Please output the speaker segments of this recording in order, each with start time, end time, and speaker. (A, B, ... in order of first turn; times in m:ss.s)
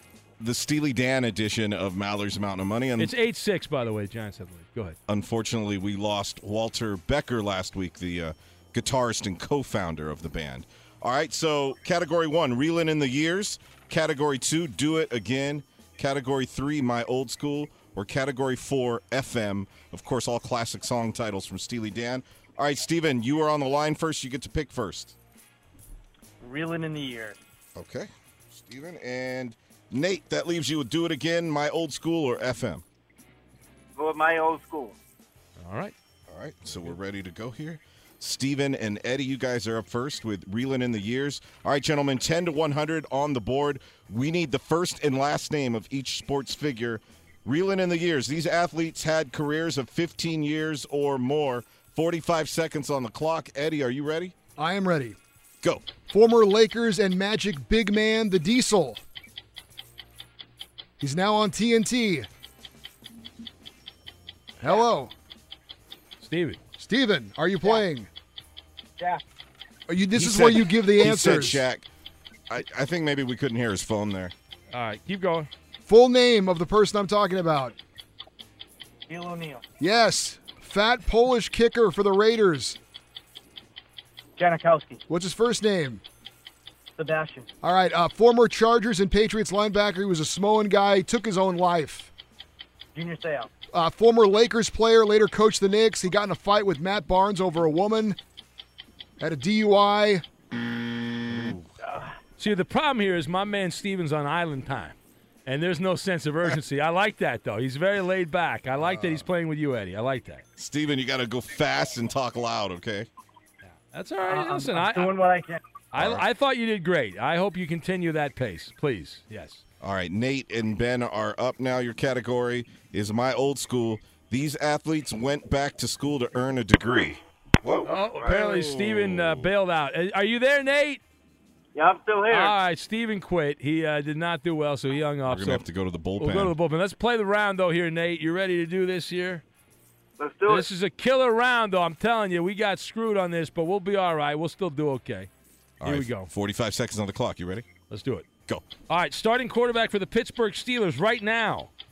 0:00.4-0:03.1 A
0:03.0-0:05.0 B
0:05.1-0:25.1 A
0:26.4-0:27.4 C
0:27.8-0:32.8 A
0:34.0-0:35.0 D
0:35.6-0:35.9 B
0:36.3-0:54.3 A
0:54.6-0:55.2 E
0:55.6-0:55.9 A
0:56.1-0:59.0 E
1:01.0-1:02.3 E
1:04.6-1:05.1 E
1:06.2-1:06.6 B
1:06.8-1:08.1 E
1:09.9-1:11.6 E
1:10.1-1:11.8 A
1:12.5-1:14.3 A
1:14.7-1:15.5 B
1:15.9-1:17.8 E
1:19.1-1:19.6 C
1:19.8-1:22.8 E
1:24.4-1:25.0 C
1:25.1-1:26.0 E
1:27.0-1:27.5 C
1:27.6-1:32.1 E
1:32.9-1:33.5 C
1:33.7-1:38.2 E
1:39.2-1:40.2 E
1:41.3-1:41.6 A
1:42.4-1:50.4 B
1:50.6-1:53.1 A
1:53.6-1:55.1 B
1:54.3-1:55.6 C
1:55.9-1:59.6 B
1:55.9-1:56.2 A
1:59.8-2:09.5 A
2:07.8-2:11.0 B
2:11.7-2:12.6 D
2:12.3-2:15.6 B
2:15.3-2:16.5 A
2:16.2-2:19.4 B
2:20.2-2:20.7 D
2:20.5-2:25.3 B
2:25.8-2:27.7 A
2:25.8-2:26.3 B
2:27.9-2:28.3 B
2:28.9-2:31.7 B